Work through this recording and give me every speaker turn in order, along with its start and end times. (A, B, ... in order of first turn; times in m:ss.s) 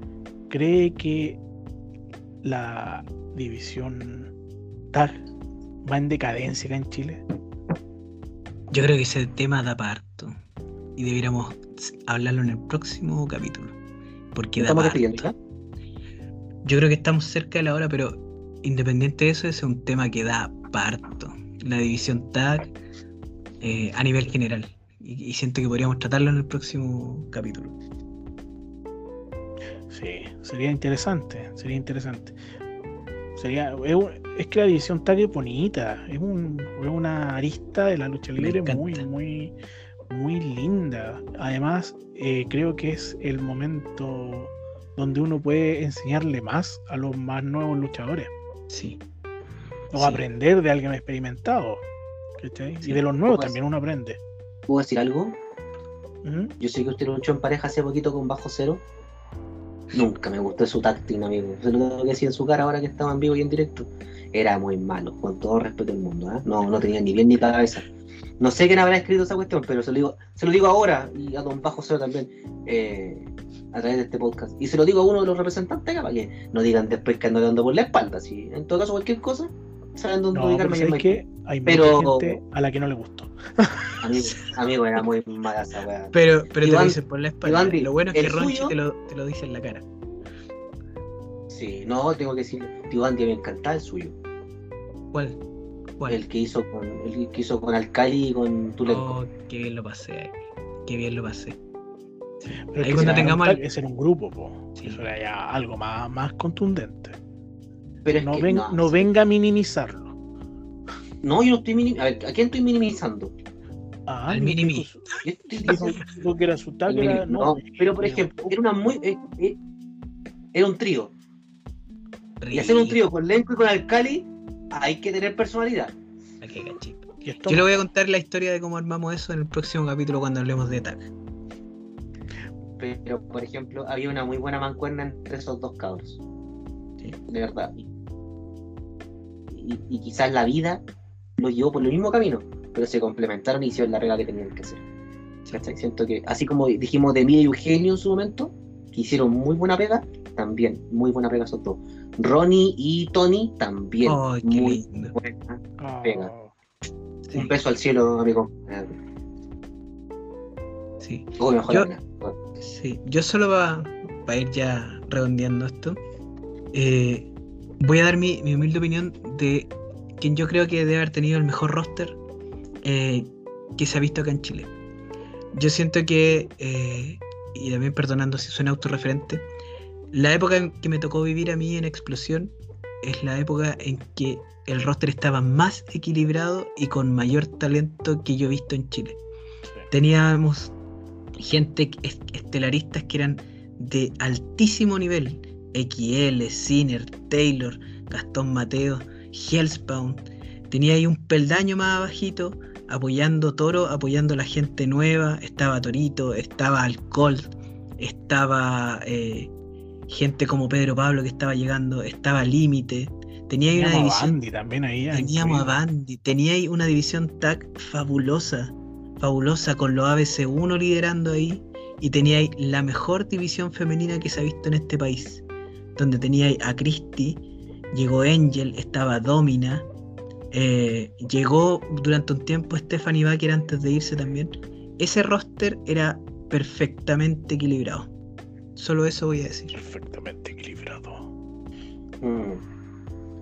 0:00.5-0:01.4 A
0:02.4-0:04.3 A
0:04.9-0:05.2 A
0:05.8-0:07.2 A
0:08.7-0:10.4 B
0:11.0-0:13.8 B
0:14.3-0:15.3 B
0:14.6-0:15.3 C
0:16.6-0:22.7 B
0:23.6-0:27.8 B
0:29.9-0:32.4 A
0:33.4-0:39.5 A
0:38.4-0:39.0 B
0:40.1-0:48.3 A
0:48.7-0:49.0 B
0:49.9-0:51.8 A
0:50.0-0:50.2 B
0:52.4-0:54.2 A
0:53.3-0:53.6 C
0:54.7-0:55.4 C
0:56.2-0:56.5 A
0:56.6-0:58.8 C
0:59.9-1:07.9 C
1:08.4-1:22.4 C
1:20.3-1:24.0 A
1:24.0-1:28.7 C
1:26.1-1:29.8 B
1:31.5-1:34.2 C
1:35.1-1:35.4 B
1:36.1-1:39.2 C
1:38.8-1:41.6 B
1:42.7-1:47.2 A
1:42.8-1:43.6 B
1:42.9-1:43.3 C
1:48.0-1:49.1 C
1:48.2-1:50.1 A
1:51.2-1:53.3 C
1:54.1-1:58.5 A
1:54.3-1:54.9 B
1:55.2-1:56.0 C
1:56.9-1:59.6 C
2:00.5-2:01.1 C
2:02.4-2:03.0 B
2:02.5-2:05.9 C
2:06.4-2:11.1 B
2:07.2-2:07.7 A
2:12.8-2:16.2 C
2:17.3-2:17.8 C
2:19.5-2:20.8 C
2:21.4-2:24.8 C
2:25.5-2:36.3 C
2:34.0-2:35.1 B
2:35.8-2:36.5 A
2:37.2-2:37.5 B
2:37.3-2:39.0 C
2:41.0-2:41.9 B
2:41.4-2:42.4 C
2:42.6-2:46.0 B
2:46.7-2:52.2 B
2:52.8-2:54.7 B
2:55.5-2:59.4 B
3:00.1-3:09.2 B
3:09.9-3:10.7 B
3:11.4-3:29.5 B
3:30.1-3:34.4 B
3:33.7-3:35.7 A
3:35.1-3:45.4 B
3:46.0-3:49.9 B
3:50.5-3:58.1 B
3:58.8-3:59.8 B
3:59.7-4:01.3 A
4:02.2-4:02.6 C